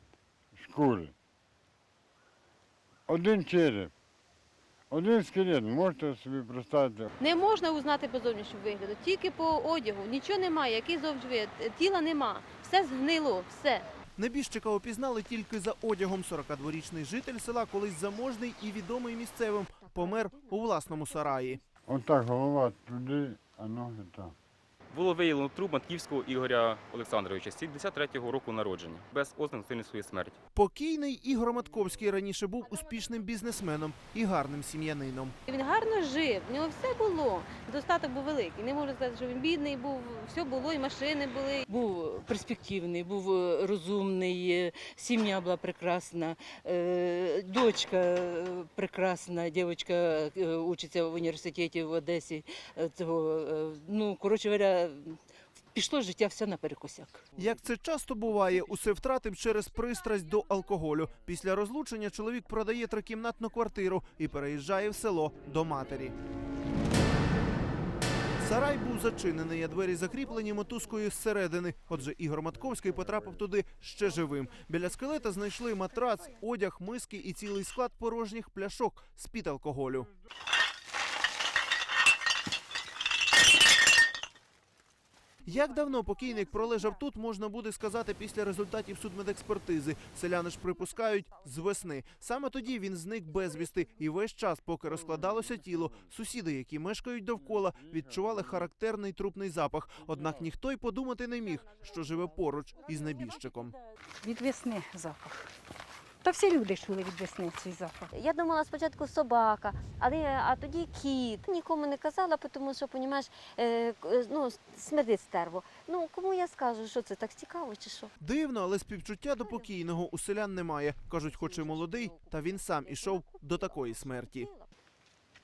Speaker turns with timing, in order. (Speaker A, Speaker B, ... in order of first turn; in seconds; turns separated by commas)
Speaker A: 0.5-1.1, Speaker A: 3.1-3.9, Speaker A: 4.9-7.1, Speaker B: 7.2-13.9, Speaker C: 14.2-21.6, Speaker D: 19.8-20.7, Speaker D: 21.2-21.6, Speaker A: 21.9-24.3, Speaker E: 24.9-30.4, Speaker C: 30.5-35.3, Speaker B: 35.5-41.6, Speaker F: 41.7-55.2, Speaker F: 55.7-57.2, Speaker C: 57.4-66.1, Speaker C: 68.4-80.1, Speaker C: 85.4-103.7, Speaker A: 97.9-98.4, Speaker G: 104.2-105.5, Speaker G: 106.2-108.1, Speaker D: 108.1-118.1, Speaker C: 118.2-124.5, Speaker D: 119.4-119.9, Speaker D: 121.3-124.7